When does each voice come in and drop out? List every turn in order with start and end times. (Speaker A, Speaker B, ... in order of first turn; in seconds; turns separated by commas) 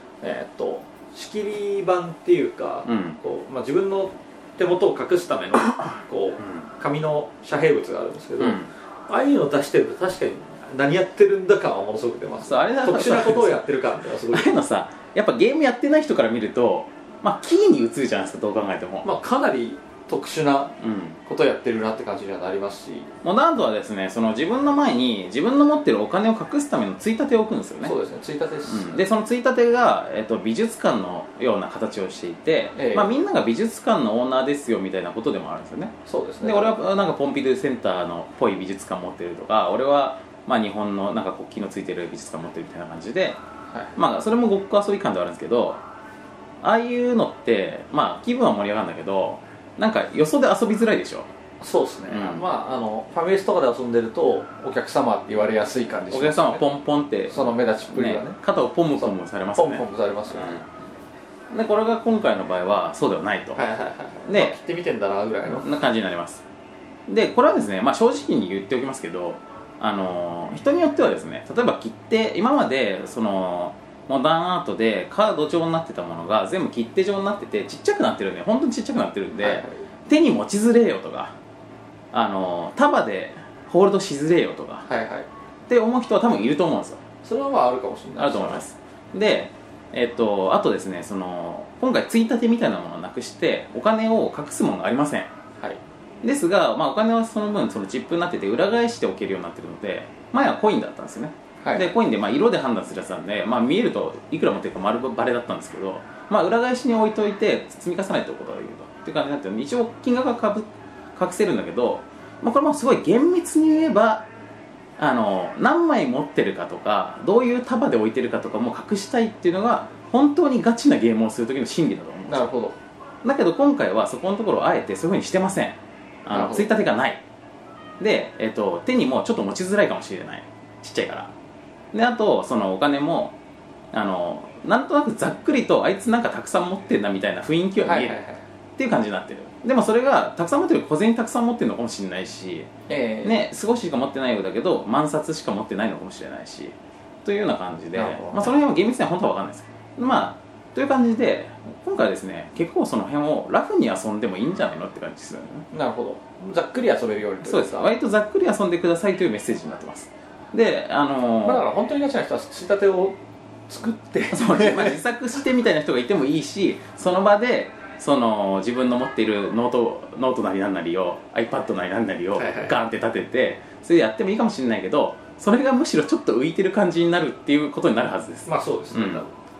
Speaker A: 0.2-14.5, Speaker B: 2.9-3.2, Speaker B: 6.4-6.7, Speaker B: 8.4-8.7, Speaker B: 12.4-13.6, Speaker B: 14.3-19.1, Speaker A: 19.0-23.1, Speaker B: 20.8-21.2, Speaker B: 23.2-27.9, Speaker A: 27.8-29.0, Speaker B: 28.7-43.4, Speaker A: 32.7-33.1, Speaker A: 36.0-36.8, Speaker B: 43.9-45.8, Speaker B: 46.6-51.3, Speaker A: 51.6-56.6, Speaker B: 52.1-52.4, Speaker B: 56.1-60.6, Speaker A: 57.3-58.4, Speaker A: 59.0-60.6, Speaker B: 61.5-63.6, Speaker A: 63.5-65.7, Speaker B: 64.2-64.6, Speaker B: 65.5-66.4, Speaker B: 67.1-81.3, Speaker A: 79.4-79.8, Speaker B: 82.1-84.9, Speaker A: 84.9-85.3, Speaker B: 85.7-87.0, Speaker A: 87.2-88.6, Speaker B: 88.2-95.3, Speaker B: 96.2-114.3, Speaker A: 101.6-101.9, Speaker B: 115.0-122.5, Speaker A: 122.3-122.8, Speaker B: 123.2-127.2, Speaker A: 126.3-126.8, Speaker B: 128.0-131.3, Speaker B: 131.9-133.3, Speaker B: 133.9-138.2, Speaker A: 137.8-138.4, Speaker B: 138.8-142.7, Speaker A: 142.9-143.4, Speaker B: 143.2-155.7, Speaker A: 147.9-148.6, Speaker A: 155.7-157.9, Speaker B: 157.4-161.6, Speaker A: 161.4-165.0, Speaker B: 164.3-179.2, Speaker A: 172.3-172.8, Speaker A: 178.4-179.3